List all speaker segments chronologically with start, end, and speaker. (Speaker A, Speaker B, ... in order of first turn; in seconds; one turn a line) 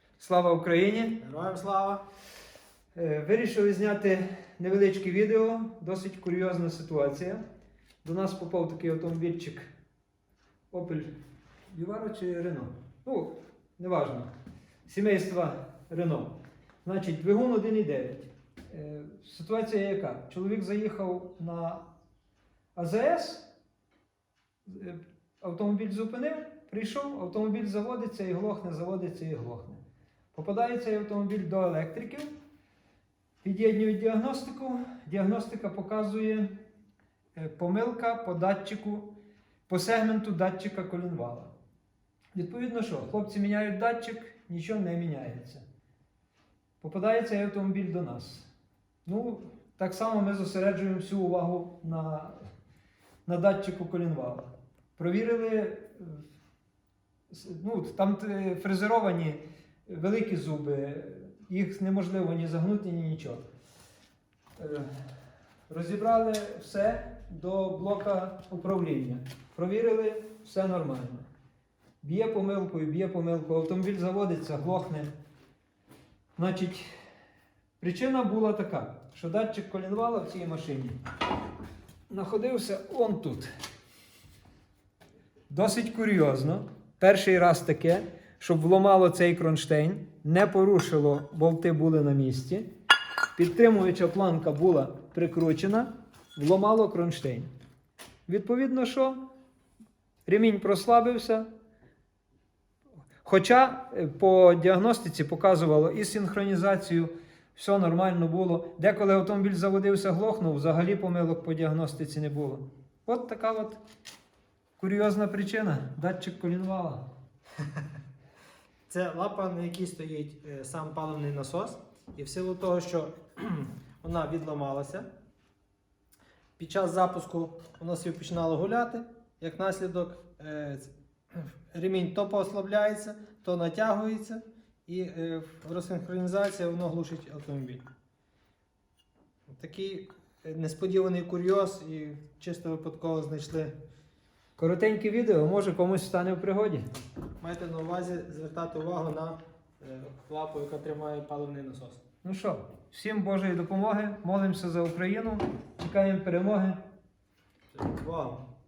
Speaker A: 0.2-1.2
Speaker B: 1.2-2.0
Speaker A: 2.9-7.4
Speaker A: 8.0-9.7
Speaker A: 10.7-11.1
Speaker A: 11.7-14.3
Speaker A: 14.9-21.9
Speaker A: 22.8-23.5
Speaker A: 24.6-29.8
Speaker A: 30.3-32.3
Speaker A: 33.4-36.5
Speaker A: 37.3-39.1
Speaker A: 39.7-41.5
Speaker A: 42.3-45.6
Speaker A: 46.8-48.5
Speaker A: 49.0-52.4
Speaker A: 53.2-56.2
Speaker A: 57.3-63.4
Speaker A: 64.6-64.9
Speaker A: 65.7-71.3
Speaker A: 72.0-75.1
Speaker A: 76.4-76.9
Speaker A: 77.8-81.0
Speaker A: 82.1-83.5
Speaker A: 85.5-92.7
Speaker A: 93.4-97.5
Speaker A: 98.3-99.2
Speaker A: 100.2-101.4
Speaker A: 103.2-113.8
Speaker A: 114.8-117.0
Speaker B: 118.9-125.0
Speaker B: 126.6-137.8
Speaker B: 139.5-143.7
Speaker A: 144.6-146.9
Speaker B: 147.4-152.0
Speaker A: 152.2-156.8
Speaker B: 157.7-158.4